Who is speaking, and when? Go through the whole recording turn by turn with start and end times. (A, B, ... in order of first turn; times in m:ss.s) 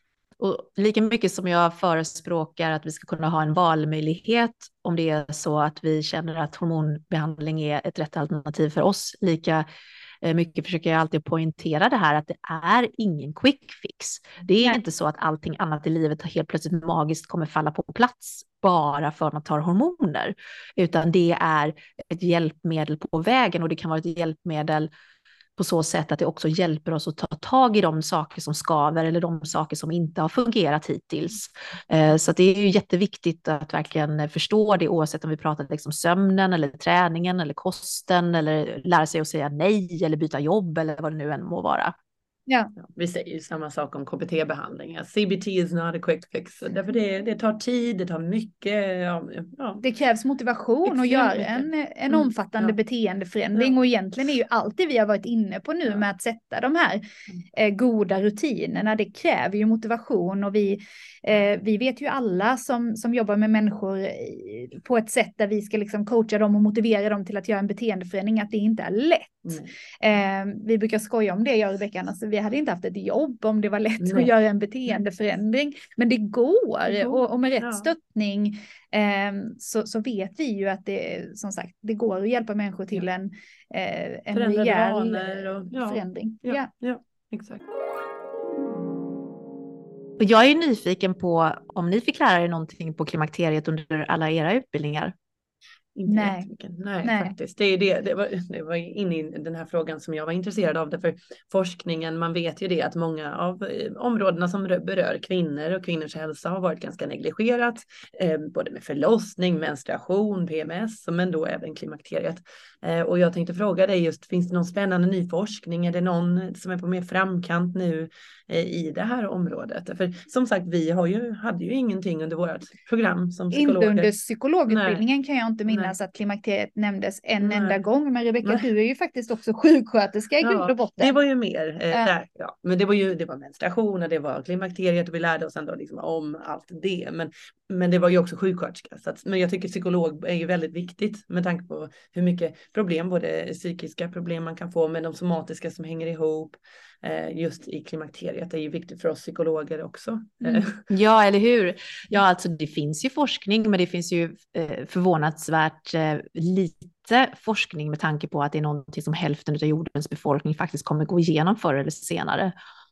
0:00.4-0:09.6 A
0:10.2-0:24.9 A
0:25.6-0:41.9 A
0:42.8-0:49.8 B
0:49.8-0:57.0 C
0:50.8-0:52.8 B
0:57.5-1:26.7 C
1:09.5-1:09.7 B
1:14.0-1:14.3 B
1:16.9-1:17.9 B
1:24.3-1:27.6 B
1:30.2-1:35.1 A
1:36.0-2:04.1 B
1:36.1-1:36.5 C
1:37.0-1:37.3 C
2:03.5-2:11.2 C
2:04.7-2:05.0 B
2:05.6-2:05.9 B
2:07.4-2:07.8 B
2:10.4-2:30.8 B
2:30.5-2:42.5 A